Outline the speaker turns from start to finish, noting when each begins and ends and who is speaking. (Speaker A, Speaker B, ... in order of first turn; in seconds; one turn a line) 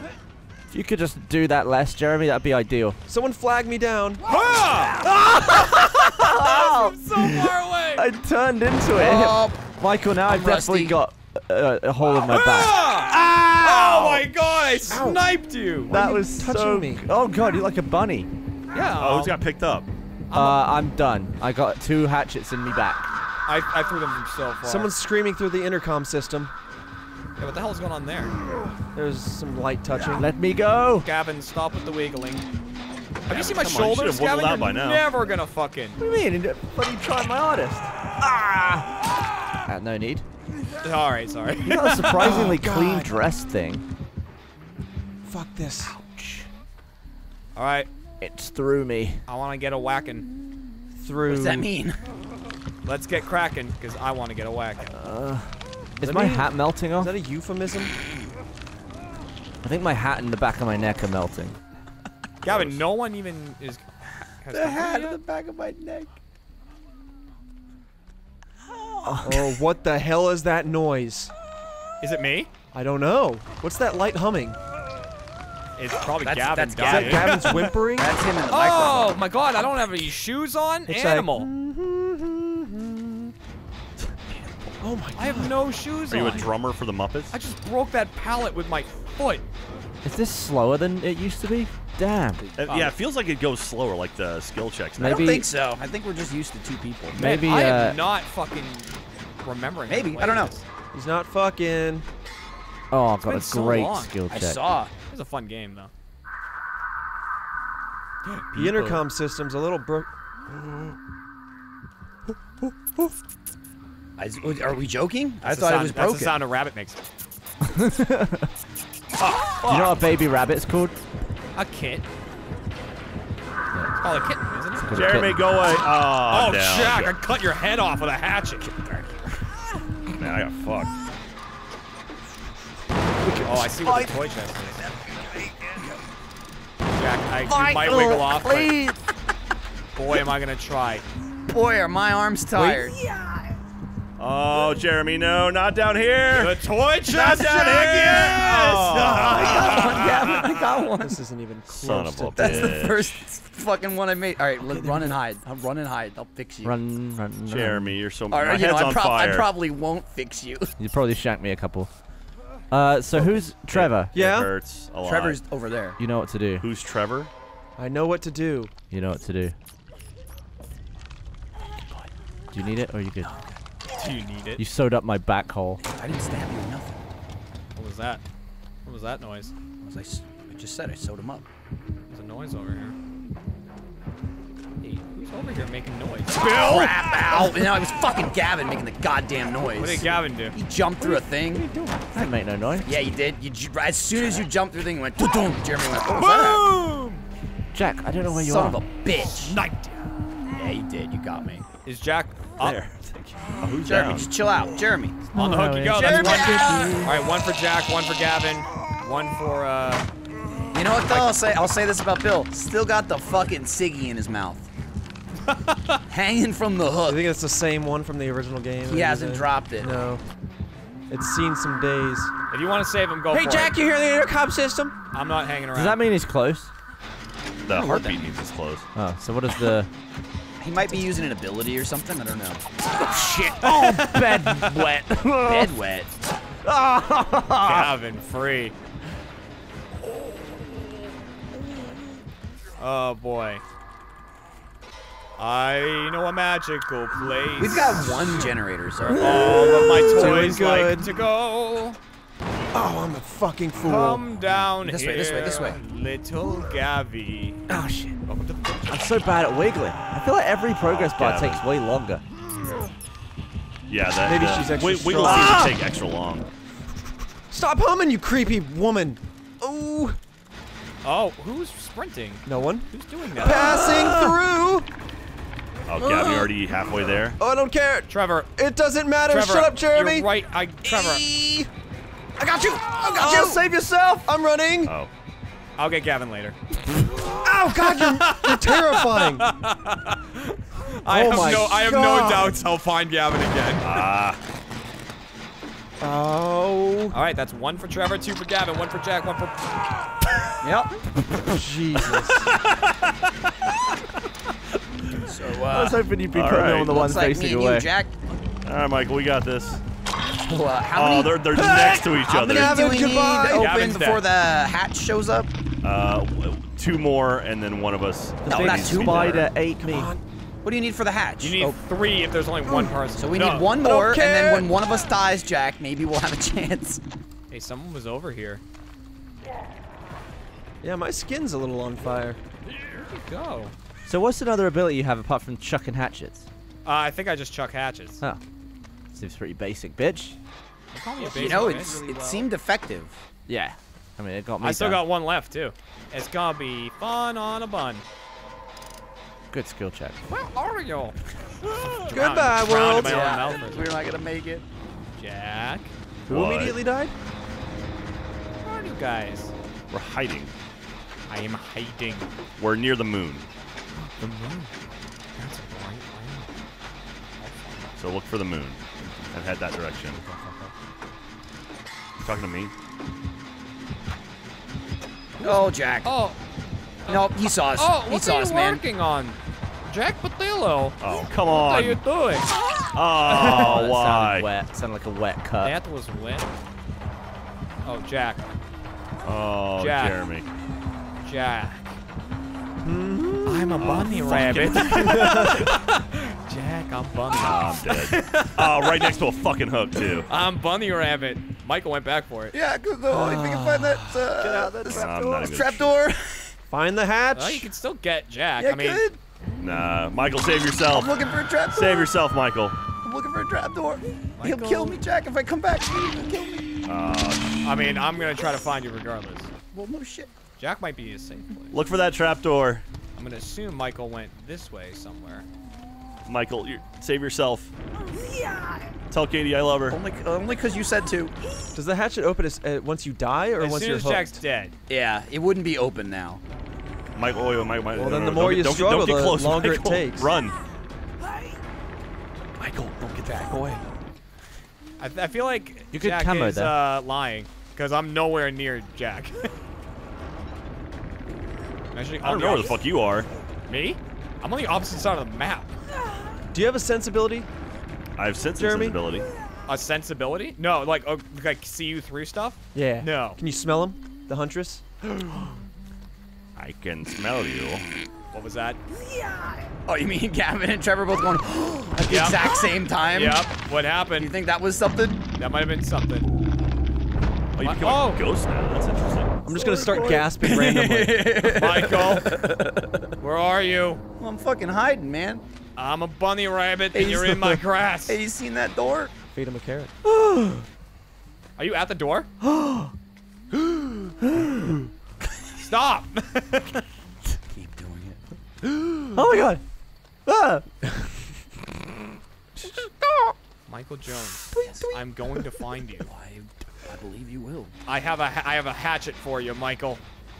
Speaker A: 0.7-3.0
Speaker B: 3.1-4.2
Speaker C: 4.2-8.1
Speaker A: 5.0-12.8
Speaker D: 8.9-9.7
Speaker D: 10.2-10.9
Speaker C: 12.2-15.9
Speaker B: 14.9-15.3
Speaker B: 15.9-17.0
Speaker A: 15.9-18.3
Speaker C: 18.7-19.4
Speaker E: 18.9-19.9
Speaker C: 20.3-20.6
Speaker A: 20.3-23.1
Speaker C: 23.5-24.9
Speaker B: 24.6-26.5
Speaker C: 27.4-28.4
Speaker B: 28.9-30.3
Speaker A: 30.2-31.1
Speaker C: 31.0-32.5
Speaker C: 33.3-36.0
Speaker E: 33.3-35.0
Speaker A: 36.0-38.8
Speaker A: 39.7-40.2
Speaker C: 40.8-42.5
Speaker A: 41.6-43.8
Speaker B: 42.2-43.2
Speaker B: 45.2-46.0
Speaker A: 46.0-46.5
Speaker C: 47.5-47.9
Speaker A: 48.2-49.3
Speaker C: 49.3-50.3
Speaker B: 51.0-51.7
Speaker D: 51.2-52.0
Speaker C: 52.8-54.9
Speaker A: 54.9-57.1
Speaker B: 56.0-57.9
Speaker A: 59.6-61.6
Speaker C: 62.4-63.8
Speaker E: 62.4-62.9
Speaker C: 64.4-65.2
Speaker D: 64.5-66.1
Speaker A: 69.0-69.5
Speaker B: 69.2-71.3
Speaker C: 72.0-72.5
Speaker B: 72.7-74.6
Speaker C: 75.8-77.7
Speaker D: 76.2-79.2
Speaker B: 76.8-78.1
Speaker C: 78.5-81.5
Speaker B: 80.9-83.3
Speaker B: 84.8-85.5
Speaker C: 85.1-86.5
Speaker E: 86.1-87.3
Speaker C: 87.3-89.5
Speaker A: 90.0-92.4
Speaker D: 92.4-93.0
Speaker E: 92.5-95.4
Speaker A: 95.0-95.5
Speaker D: 95.0-97.2
Speaker A: 97.1-98.0
Speaker C: 97.2-98.9
Speaker C: 99.4-100.6
Speaker D: 99.9-100.5
Speaker B: 100.9-102.1
Speaker A: 102.9-104.6
Speaker C: 103.2-104.1
Speaker D: 104.3-104.9
Speaker C: 105.1-105.9
Speaker B: 108.5-110.1
Speaker A: 108.5-109.0
Speaker D: 114.2-116.4
Speaker C: 115.4-117.0
Speaker A: 117.6-118.5
Speaker E: 119.2-120.0
Speaker A: 119.6-121.0
Speaker C: 121.5-122.1
Speaker C: 124.0-125.0
Speaker A: 124.8-125.5
Speaker E: 124.9-127.2
Speaker C: 126.2-128.7
Speaker D: 128.7-129.2
Speaker E: 130.2-130.9
Speaker A: 133.2-134.1
Speaker C: 133.3-134.8
Speaker C: 136.9-138.7
Speaker A: 137.5-138.9
Speaker C: 139.9-141.0
Speaker D: 141.5-143.0
Speaker B: 142.6-142.9
Speaker E: 144.2-150.1
Speaker C: 146.3-150.6
Speaker D: 148.8-151.2
Speaker B: 151.0-152.7
Speaker E: 151.7-153.2
Speaker D: 152.4-156.8
Speaker B: 154.6-155.2
Speaker A: 156.6-158.0
Speaker E: 157.5-159.5
Speaker D: 158.3-160.8
Speaker A: 160.8-161.9
Speaker A: 162.7-164.1
Speaker E: 163.2-165.4
Speaker B: 164.1-164.5
Speaker D: 165.0-166.0
Speaker A: 166.0-166.7
Speaker E: 166.6-167.3
Speaker B: 167.8-168.7
Speaker A: 168.9-169.6
Speaker A: 172.5-173.4
Speaker C: 173.9-174.6
Speaker A: 174.6-175.8
Speaker D: 175.8-177.0
Speaker C: 177.8-178.2
Speaker C: 178.8-179.5
Speaker D: 179.8-181.4
Speaker C: 182.1-182.9
Speaker C: 184.8-187.5
Speaker D: 186.3-191.7
Speaker C: 189.8-190.6
Speaker A: 191.0-192.9
Speaker D: 192.8-196.6
Speaker E: 194.2-194.4
Speaker C: 196.1-197.2
Speaker A: 197.7-198.8
Speaker D: 198.3-199.6
Speaker C: 199.4-200.1
Speaker D: 200.5-201.7
Speaker C: 201.8-202.8
Speaker E: 202.6-204.3
Speaker D: 203.8-205.2
Speaker C: 205.3-210.1
Speaker A: 205.3-207.0
Speaker B: 205.4-207.2
Speaker D: 206.0-207.0
Speaker D: 210.7-214.7
Speaker C: 215.5-216.0
Speaker D: 216.1-217.2
Speaker B: 217.1-220.2
Speaker D: 218.8-219.9
Speaker B: 221.1-222.3
Speaker C: 222.5-223.8
Speaker B: 223.3-224.9
Speaker C: 225.1-226.0
Speaker A: 225.7-226.7
Speaker E: 227.7-228.9
Speaker D: 227.7-228.4
Speaker A: 228.9-229.9
Speaker D: 230.6-232.7
Speaker A: 233.0-235.7
Speaker D: 235.4-236.1
Speaker A: 236.6-237.9
Speaker C: 237.6-238.8
Speaker C: 242.8-243.6
Speaker C: 245.4-248.5
Speaker D: 247.6-249.5
Speaker B: 249.0-251.1
Speaker C: 249.1-252.0
Speaker B: 252.7-254.2
Speaker C: 253.8-257.6
Speaker D: 254.8-255.8
Speaker A: 257.7-258.2
Speaker C: 258.3-258.9
Speaker A: 258.9-262.2
Speaker E: 260.8-261.6
Speaker E: 263.9-266.5
Speaker B: 264.2-265.7
Speaker B: 267.5-270.2
Speaker C: 271.0-274.0
Speaker B: 272.4-274.9
Speaker E: 275.9-277.4
Speaker D: 276.0-276.5
Speaker B: 277.4-280.3
Speaker C: 278.1-278.5
Speaker C: 279.2-281.2
Speaker D: 280.8-281.7
Speaker D: 282.4-283.6
Speaker B: 283.1-284.9
Speaker E: 284.8-285.1
Speaker C: 285.8-286.6
Speaker B: 287.2-289.5
Speaker C: 287.9-294.1
Speaker B: 291.1-292.6
Speaker E: 293.8-294.4
Speaker B: 296.0-297.2
Speaker C: 297.1-300.0
Speaker D: 300.6-301.0
Speaker B: 301.4-302.5
Speaker E: 302.5-303.3
Speaker D: 305.1-306.1
Speaker A: 305.7-307.9
Speaker E: 306.3-306.9
Speaker D: 306.8-308.1
Speaker E: 308.6-309.8
Speaker D: 310.4-315.5
Speaker E: 310.9-313.0
Speaker B: 312.4-313.7
Speaker C: 313.4-314.2
Speaker E: 315.8-319.5
Speaker A: 318.4-320.1
Speaker D: 318.5-319.4
Speaker B: 319.8-320.2
Speaker D: 320.6-321.8
Speaker C: 321.4-323.8
Speaker B: 322.6-322.9
Speaker D: 323.2-327.0
Speaker B: 323.8-324.7
Speaker C: 327.5-328.6
Speaker B: 330.8-332.4
Speaker C: 333.1-333.7
Speaker A: 334.1-336.5
Speaker C: 336.8-338.2
Speaker A: 339.1-340.4
Speaker C: 340.9-341.9
Speaker B: 341.2-342.4
Speaker D: 341.2-343.2
Speaker A: 343.5-345.0
Speaker C: 344.6-348.0
Speaker A: 349.5-350.2
Speaker C: 350.3-351.1
Speaker C: 351.8-353.9
Speaker B: 352.1-353.2
Speaker D: 352.9-354.6
Speaker C: 355.2-355.9
Speaker B: 356.3-357.1
Speaker E: 356.3-356.8
Speaker C: 358.6-359.5
Speaker E: 359.9-360.5
Speaker C: 361.3-362.3
Speaker E: 362.6-363.5
Speaker A: 364.2-364.6
Speaker C: 365.3-366.5
Speaker C: 367.4-367.9
Speaker E: 368.0-370.2
Speaker D: 370.2-370.7
Speaker E: 372.2-372.7
Speaker C: 375.4-376.4
Speaker D: 375.4-376.1
Speaker C: 377.1-379.4
Speaker D: 377.1-378.8
Speaker C: 379.9-382.5
Speaker E: 381.0-382.0
Speaker E: 382.9-384.5
Speaker A: 383.3-385.8
Speaker C: 385.6-386.5
Speaker C: 387.8-388.4
Speaker E: 389.2-390.5
Speaker C: 389.8-390.2
Speaker C: 391.2-391.8
Speaker B: 392.8-394.1
Speaker C: 393.4-399.2
Speaker E: 393.8-394.2
Speaker B: 394.7-395.7
Speaker E: 397.3-400.3
Speaker C: 400.3-402.5
Speaker D: 402.5-406.5
Speaker B: 403.1-405.1
Speaker A: 404.4-405.2
Speaker E: 404.9-405.9
Speaker B: 406.7-407.7
Speaker C: 407.4-409.0
Speaker D: 408.6-409.2
Speaker E: 409.6-412.8
Speaker D: 410.9-412.1
Speaker D: 413.0-416.7
Speaker C: 414.4-415.0
Speaker E: 416.9-417.8
Speaker C: 417.6-419.5
Speaker D: 419.7-420.3
Speaker C: 420.6-421.7
Speaker E: 421.7-422.8
Speaker C: 423.1-425.5
Speaker E: 426.2-427.7
Speaker E: 429.1-430.0
Speaker D: 429.9-431.3
Speaker B: 431.7-434.4
Speaker C: 433.6-434.8
Speaker D: 434.9-436.4
Speaker E: 437.1-440.6
Speaker B: 437.9-440.3
Speaker E: 442.6-443.6
Speaker D: 443.2-443.5
Speaker C: 445.0-449.5
Speaker A: 445.9-446.8
Speaker C: 451.9-452.8
Speaker E: 452.2-453.3
Speaker C: 453.7-455.7
Speaker B: 456.5-457.5
Speaker E: 458.2-459.3
Speaker B: 458.6-459.0
Speaker C: 459.7-463.4
Speaker B: 462.8-464.8
Speaker E: 466.6-467.9
Speaker C: 468.3-468.8
Speaker D: 469.9-473.5
Speaker C: 472.1-474.3
Speaker D: 474.2-475.2
Speaker C: 475.4-476.3
Speaker E: 477.5-479.6
Speaker C: 477.6-478.2
Speaker B: 479.4-481.4
Speaker D: 479.8-483.1
Speaker C: 481.2-482.4
Speaker C: 483.2-484.0
Speaker D: 484.2-485.4
Speaker C: 485.8-488.2
Speaker D: 486.9-489.1
Speaker B: 489.3-489.9
Speaker A: 490.0-490.6
Speaker C: 491.6-492.3
Speaker A: 492.4-492.9
Speaker A: 494.2-494.7
Speaker C: 495.6-496.8
Speaker D: 497.5-498.2
Speaker A: 499.1-499.6
Speaker A: 500.2-500.6
Speaker C: 503.7-506.1
Speaker B: 504.5-505.0
Speaker D: 504.6-504.9
Speaker D: 506.0-507.7
Speaker C: 507.9-510.0